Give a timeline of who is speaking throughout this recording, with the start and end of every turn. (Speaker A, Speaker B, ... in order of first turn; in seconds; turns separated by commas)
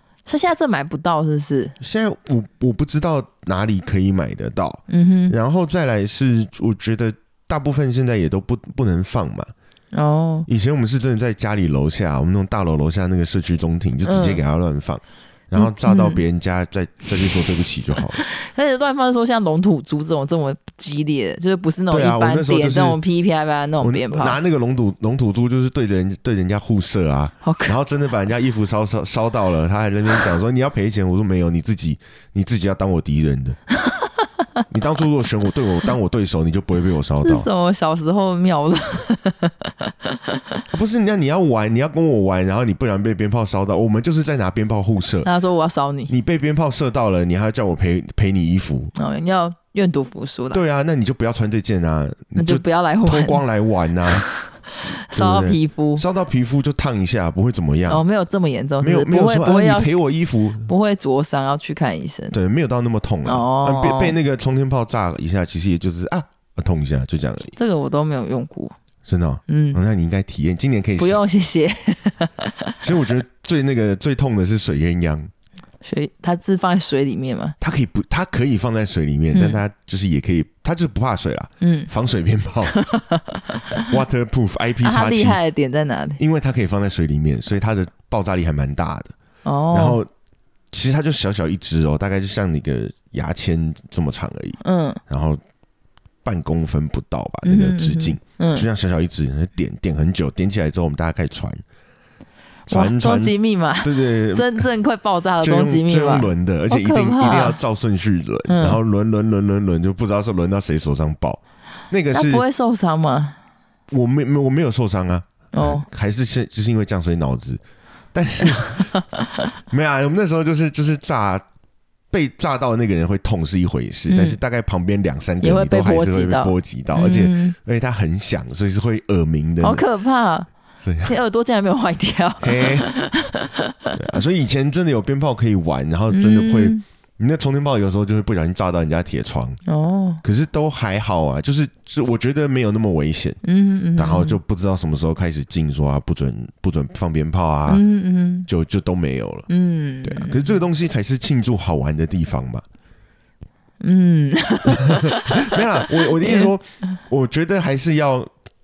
Speaker A: 0.3-1.8, Speaker B: 1.8-9.5, Speaker A: 4.9-5.3, Speaker A: 9.9-10.5, Speaker B: 10.5-18.2, Speaker A: 14.1-14.4, Speaker A: 15.6-16.2, Speaker A: 18.2-24.4, Speaker B: 21.9-23.0, Speaker B: 23.8-33.6, Speaker A: 27.4-27.8, Speaker B: 34.7-37.5, Speaker A: 37.2-40.4, Speaker B: 40.7-45.3, Speaker A: 45.2-46.1, Speaker B: 46.1-48.9, Speaker A: 49.0-50.6, Speaker B: 50.5-54.3, Speaker A: 52.4-53.4, Speaker A: 54.1-56.0, Speaker B: 55.1-58.0, Speaker A: 57.9-59.9, Speaker B: 58.8-60.7, Speaker A: 60.6-62.3, Speaker B: 62.3-67.5, Speaker A: 63.2-64.2, Speaker A: 67.5-68.8, Speaker B: 69.1-71.2, Speaker A: 69.5-69.8, Speaker A: 71.0-72.8, Speaker B: 72.8-75.3, Speaker A: 75.8-77.5, Speaker B: 77.6-82.7, Speaker A: 79.3-79.6, Speaker A: 81.6-81.9, Speaker A: 82.7-83.8, Speaker B: 83.8-85.4, Speaker A: 84.8-86.2, Speaker B: 86.2-89.1, Speaker A: 89.5-90.0, Speaker B: 89.7-90.1, Speaker B: 90.7-95.4, Speaker A: 94.6-95.0, Speaker B: 96.2-101.6, Speaker A: 97.4-98.7, Speaker A: 102.7-107.6, Speaker B: 102.7-104.7, Speaker B: 105.4-112.5, Speaker A: 108.5-108.8, Speaker A: 112.1-113.4, Speaker B: 113.9-117.6, Speaker A: 115.5-115.9, Speaker B: 118.1-118.9, Speaker B: 119.7-121.5, Speaker B: 122.1-129.8, Speaker A: 124.1-124.4, Speaker A: 125.4-127.6, Speaker A: 129.6-130.5, Speaker B: 130.8-131.1, Speaker A: 131.1-134.0, Speaker B: 132.4-132.9, Speaker B: 133.9-139.6, Speaker A: 136.1-136.8, Speaker A: 139.7-140.2, Speaker B: 140.2-143.4, Speaker A: 143.4-144.4, Speaker B: 144.0-147.8, Speaker A: 147.7-148.5, Speaker B: 148.5-149.5, Speaker A: 149.5-150.6, Speaker B: 150.0-152.7, Speaker A: 153.8-155.4, Speaker B: 154.7-158.3, Speaker A: 156.2-156.6